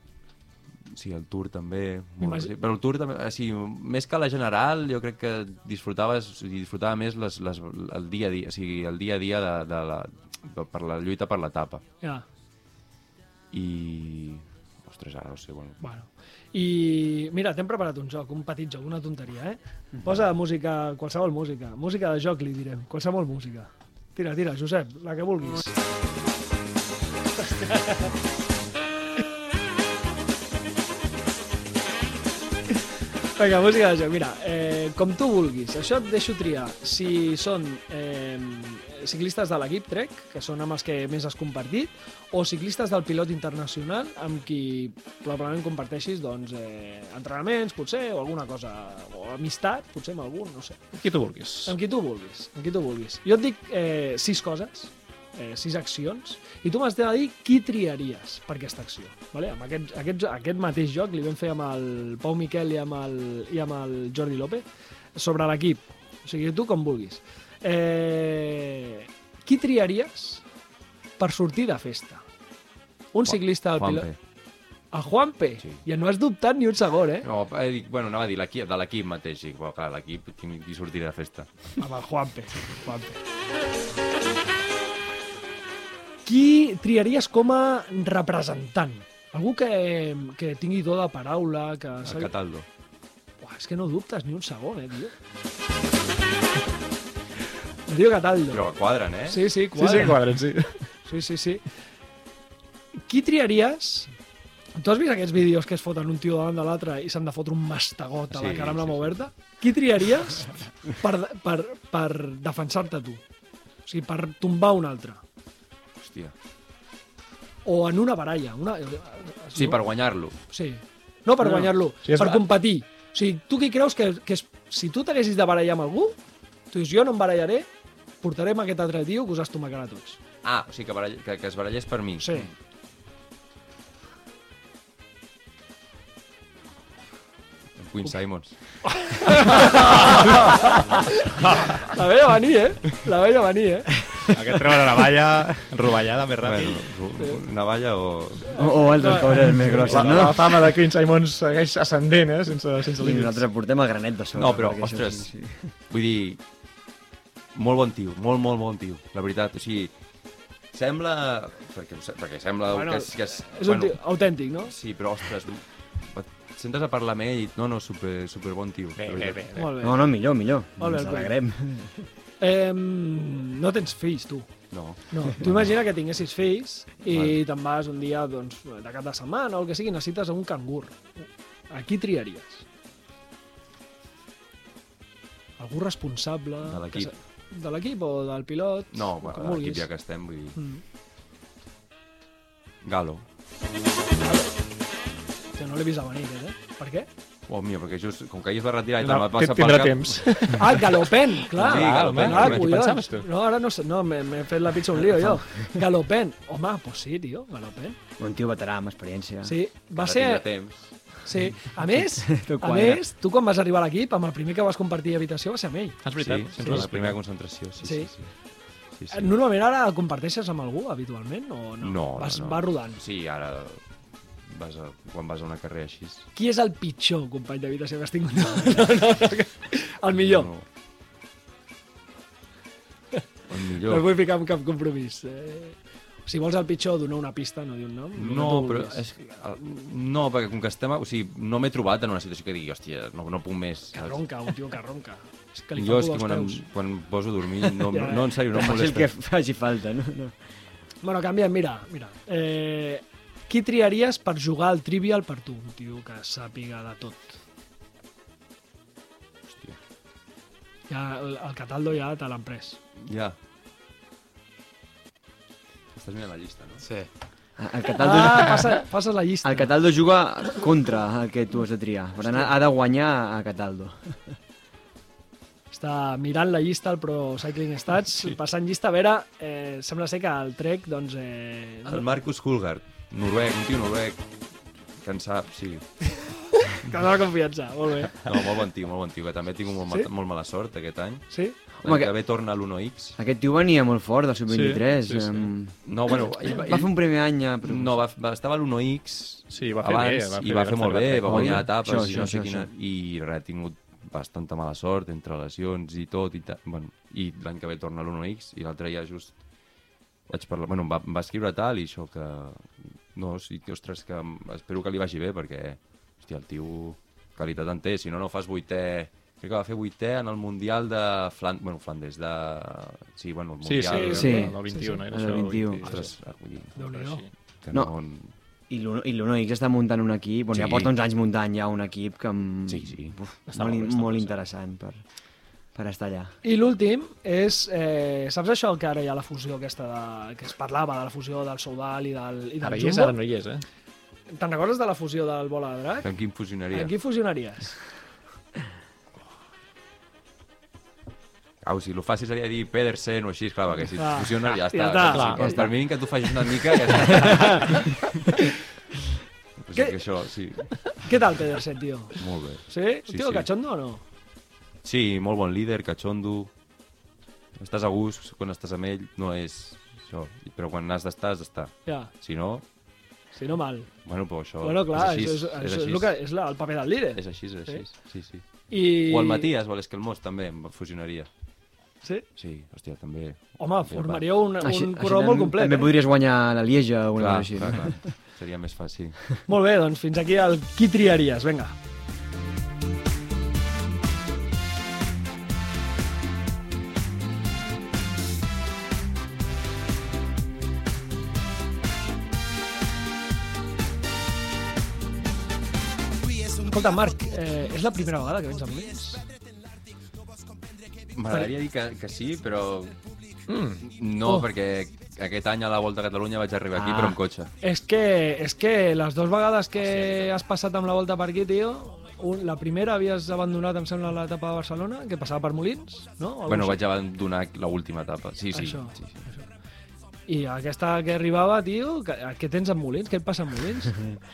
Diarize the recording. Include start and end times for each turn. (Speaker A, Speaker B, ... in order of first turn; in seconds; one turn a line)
Speaker A: 0.9-11.8
Speaker B: 2.2-2.5
Speaker A: 13.5-15.8
Speaker B: 15.8-25.8
Speaker B: 27.4-28.1
Speaker B: 33.4-50.9
Speaker C: 50.9-51.8
Speaker B: 51.6-70.4
Speaker B: 71.2-72.2
Speaker B: 73.1-74.1
Speaker A: 73.3-74.2
Speaker B: 74.9-77.3
Speaker A: 77.2-81.8
Speaker B: 81.8-83.2
Speaker B: 86.2-92.3
Speaker A: 92.0-92.7
Speaker B: 93.4-95.2
Speaker B: 97.9-98.6
Speaker A: 98.5-99.5
Speaker B: 99.2-100.3
Speaker C: 99.7-100.9
Speaker B: 101.0-101.7
Speaker B: 103.0-104.1
Speaker B: 104.8-113.2
Speaker A: 108.3-109.2
Speaker B: 113.8-115.2
Speaker A: 116.0-116.3
Speaker B: 117.7-119.9
Speaker A: 119.5-120.4
Speaker B: 120.5-126.2
Speaker C: 121.5-122.5
Speaker B: 126.7-127.7
Speaker B: 128.2-130.2
Speaker A: 130.4-132.3
Speaker B: 132.2-132.5
Speaker A: 137.8-140.8
Speaker B: 138.8-144.1
Speaker D: 144.4-146.9
Speaker A: 146.4-148.7
Speaker E: 148.5-150.6
Speaker B: 148.6-149.4
Speaker C: 149.6-153.4
Speaker A: 149.9-150.2
Speaker E: 153.0-155.7
Speaker A: 154.3-156.4
Speaker A: 157.5-159.9
Speaker A: 160.7-169.4
Speaker B: 162.7-164.7
Speaker C: 169.0-169.8
Speaker B: 169.6-170.0
Speaker E: 169.8-172.0
Speaker B: 170.8-171.3
Speaker B: 172.4-182.7
Speaker A: 174.7-175.7
Speaker A: 177.1-177.4
Speaker B: 185.6-189.9
Speaker A: 186.6-187.1
Speaker A: 188.9-190.6
Speaker B: 190.6-190.8
Speaker A: 192.8-193.2
Speaker B: 195.6-197.1
Speaker A: 197.5-200.5
Speaker C: 199.0-203.3
Speaker B: 200.5-208.0
Speaker A: 201.6-202.7
Speaker E: 205.2-205.7
Speaker E: 208.2-209.6
Speaker B: 209.4-216.0
Speaker A: 210.0-211.2
Speaker E: 212.3-213.0
Speaker C: 216.0-217.2
Speaker A: 216.2-218.3
Speaker B: 216.6-216.9
Speaker B: 217.8-218.1
Speaker A: 218.9-219.3
Speaker B: 219.1-223.0
Speaker A: 221.8-223.8
Speaker A: 224.4-226.3
Speaker B: 226.3-230.5
Speaker A: 230.1-230.7
Speaker A: 233.5-234.1
Speaker B: 233.9-239.0
Speaker A: 238.2-244.5
Speaker B: 243.9-246.7
Speaker A: 245.8-249.1
Speaker B: 247.9-248.3
Speaker E: 248.5-250.4
Speaker B: 251.0-257.4
Speaker A: 259.5-259.8
Speaker B: 260.9-262.8
Speaker A: 263.1-263.4
Speaker A: 265.9-266.9
Speaker D: 266.8-267.1
Speaker E: 267.6-268.8
Speaker B: 268.0-269.7
Speaker E: 269.4-274.4
Speaker B: 275.7-282.1
Speaker A: 281.9-284.4
Speaker A: 285.0-286.1
Speaker B: 286.6-288.5
Speaker A: 288.3-293.2
Speaker B: 291.3-291.6
Speaker E: 291.8-292.1
Speaker E: 293.2-298.0
Speaker C: 294.5-295.5
Speaker A: 295.9-297.1
Speaker A: 297.6-309.4
Speaker C: 299.5-302.2
Speaker E: 301.3-302.7
Speaker A: 310.3-324.4
Speaker C: 323.6-326.1
Speaker B: 323.9-325.1
Speaker E: 324.2-325.9
Speaker A: 325.9-326.8
Speaker B: 326.8-327.2
Speaker C: 326.8-327.3
Speaker A: 327.6-328.3
Speaker E: 328.7-335.1
Speaker A: 330.5-330.9
Speaker A: 332.7-333.2
Speaker C: 333.5-334.4
Speaker E: 335.7-336.4
Speaker B: 336.4-343.2
Speaker C: 342.6-343.6
Speaker B: 344.4-346.1
Speaker A: 346.0-346.9
Speaker B: 346.7-347.9
Speaker A: 351.6-357.9
Speaker B: 354.0-355.7
Speaker C: 355.0-355.7
Speaker B: 357.0-357.8
Speaker A: 359.6-361.0
Speaker B: 360.9-362.1
Speaker A: 362.1-363.5
Speaker B: 362.7-364.0
Speaker A: 364.8-366.5
Speaker A: 367.6-372.6
Speaker B: 371.9-372.1
Speaker B: 373.3-379.5
Speaker A: 374.1-376.2
Speaker A: 377.1-381.3
Speaker A: 382.4-384.4
Speaker B: 383.6-385.9
Speaker E: 384.6-388.1
Speaker A: 387.2-389.3
Speaker B: 389.5-391.8
Speaker B: 406.6-409.3
Speaker A: 411.1-413.0
Speaker C: 413.5-413.9
Speaker A: 413.9-417.5
Speaker E: 416.7-417.2
Speaker B: 417.6-426.8
Speaker A: 420.0-420.3
Speaker A: 426.5-429.2
Speaker B: 428.5-429.5
Speaker B: 430.3-434.0